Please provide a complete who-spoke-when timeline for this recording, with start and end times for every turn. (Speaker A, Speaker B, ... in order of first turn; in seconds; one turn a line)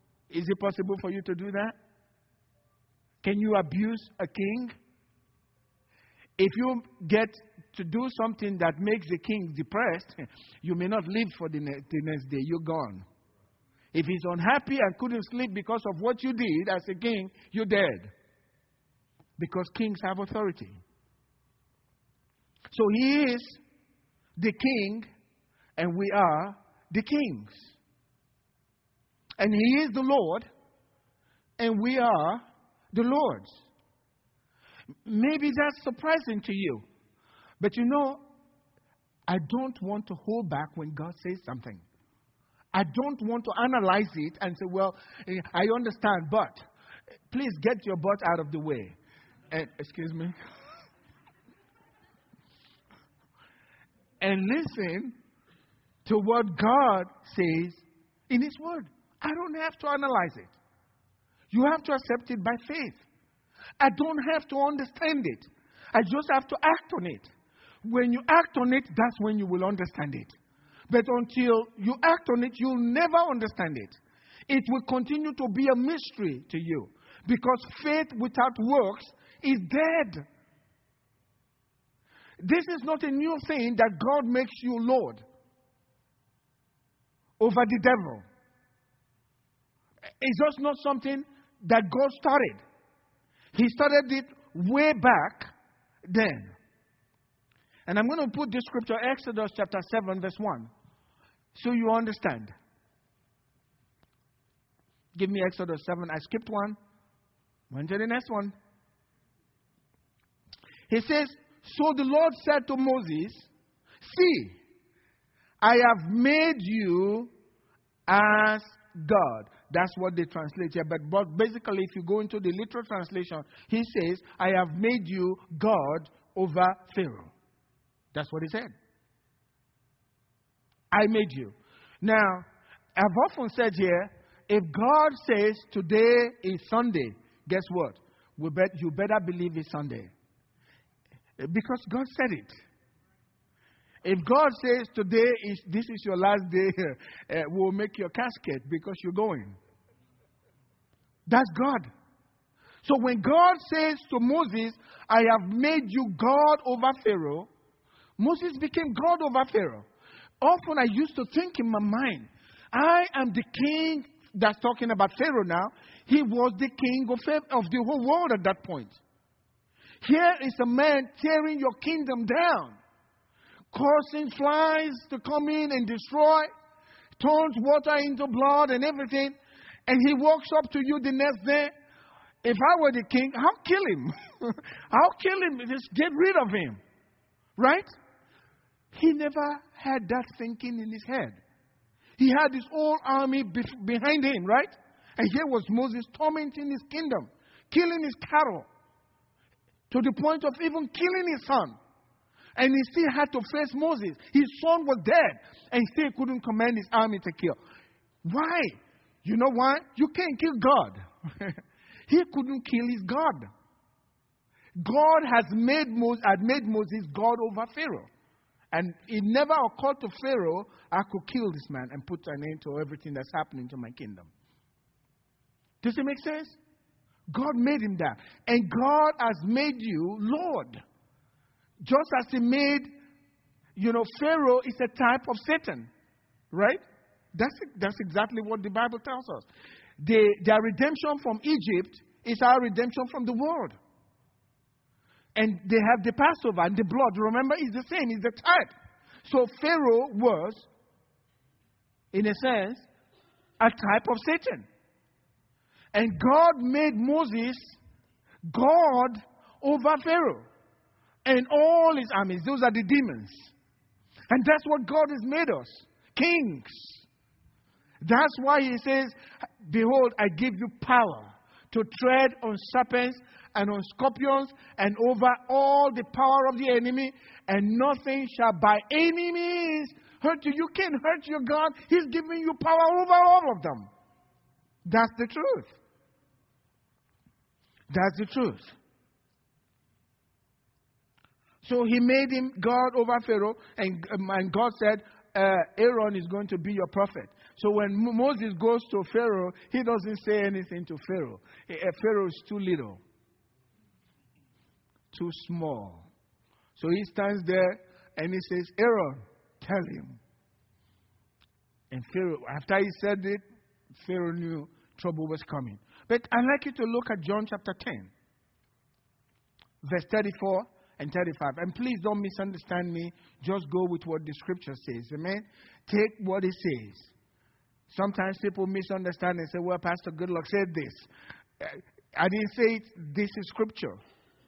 Speaker A: 0.3-1.8
Speaker A: 3.2-4.8
Speaker A: 6.4-13.1
Speaker A: 13.9-18.1
Speaker A: 19.4-20.8
Speaker A: 22.7-23.6
Speaker A: 24.4-25.1
Speaker A: 25.8-27.8
Speaker A: 29.4-30.5
Speaker A: 31.6-32.4
Speaker A: 32.9-33.6
Speaker A: 35.1-36.9
Speaker A: 37.6-38.2
Speaker A: 39.3-41.9
Speaker A: 42.7-46.6
Speaker A: 47.3-49.0
Speaker A: 49.5-50.4
Speaker A: 54.2-55.1
Speaker A: 56.1-60.5
Speaker A: 61.5-63.0
Speaker A: 63.8-67.3
Speaker A: 67.8-70.3
Speaker A: 70.9-80.2
Speaker A: 82.4-85.2
Speaker A: 87.4-88.2
Speaker A: 90.2-92.6
Speaker A: 93.5-95.5
Speaker A: 96.1-96.5
Speaker A: 97.9-100.7
Speaker A: 101.5-102.5
Speaker A: 105.2-106.8
Speaker A: 107.7-108.5
Speaker A: 110.9-113.5
Speaker A: 114.0-114.6
Speaker A: 115.6-117.3
Speaker A: 118.1-127.3
Speaker A: 128.1-128.7
Speaker A: 130.9-140.1
Speaker A: 141.4-142.6
Speaker A: 144.0-149.6
Speaker A: 151.3-151.9
Speaker A: 152.8-157.5
Speaker A: 158.2-159.9
Speaker A: 160.4-169.0
Speaker A: 170.0-172.8
Speaker A: 173.7-176.5
Speaker A: 177.2-179.3
Speaker A: 179.9-181.7
Speaker A: 182.4-186.8
Speaker A: 187.6-187.9
Speaker A: 188.9-191.4
Speaker A: 192.2-198.7
Speaker A: 199.9-201.8
Speaker A: 202.6-207.6
Speaker A: 208.2-213.5
Speaker A: 214.8-218.1
Speaker A: 218.7-224.3
Speaker A: 225.8-226.6
Speaker A: 227.3-230.8
Speaker A: 231.8-232.9
Speaker A: 233.8-235.9
Speaker A: 236.5-236.8
Speaker A: 237.3-239.5
Speaker A: 240.0-243.8
Speaker A: 245.3-248.7
Speaker A: 249.2-250.7
Speaker A: 252.1-252.9
Speaker A: 253.6-254.7
Speaker A: 255.9-257.8
Speaker A: 258.5-260.5
Speaker A: 261.2-263.5
Speaker A: 264.3-267.1
Speaker A: 268.0-283.9
Speaker A: 284.9-285.8
Speaker A: 287.9-288.8
Speaker A: 291.6-303.0
Speaker A: 305.1-306.1
Speaker A: 306.8-310.2
Speaker A: 311.9-313.4
Speaker A: 313.9-318.1
Speaker A: 319.8-327.1
Speaker A: 327.9-331.1
Speaker A: 331.6-334.0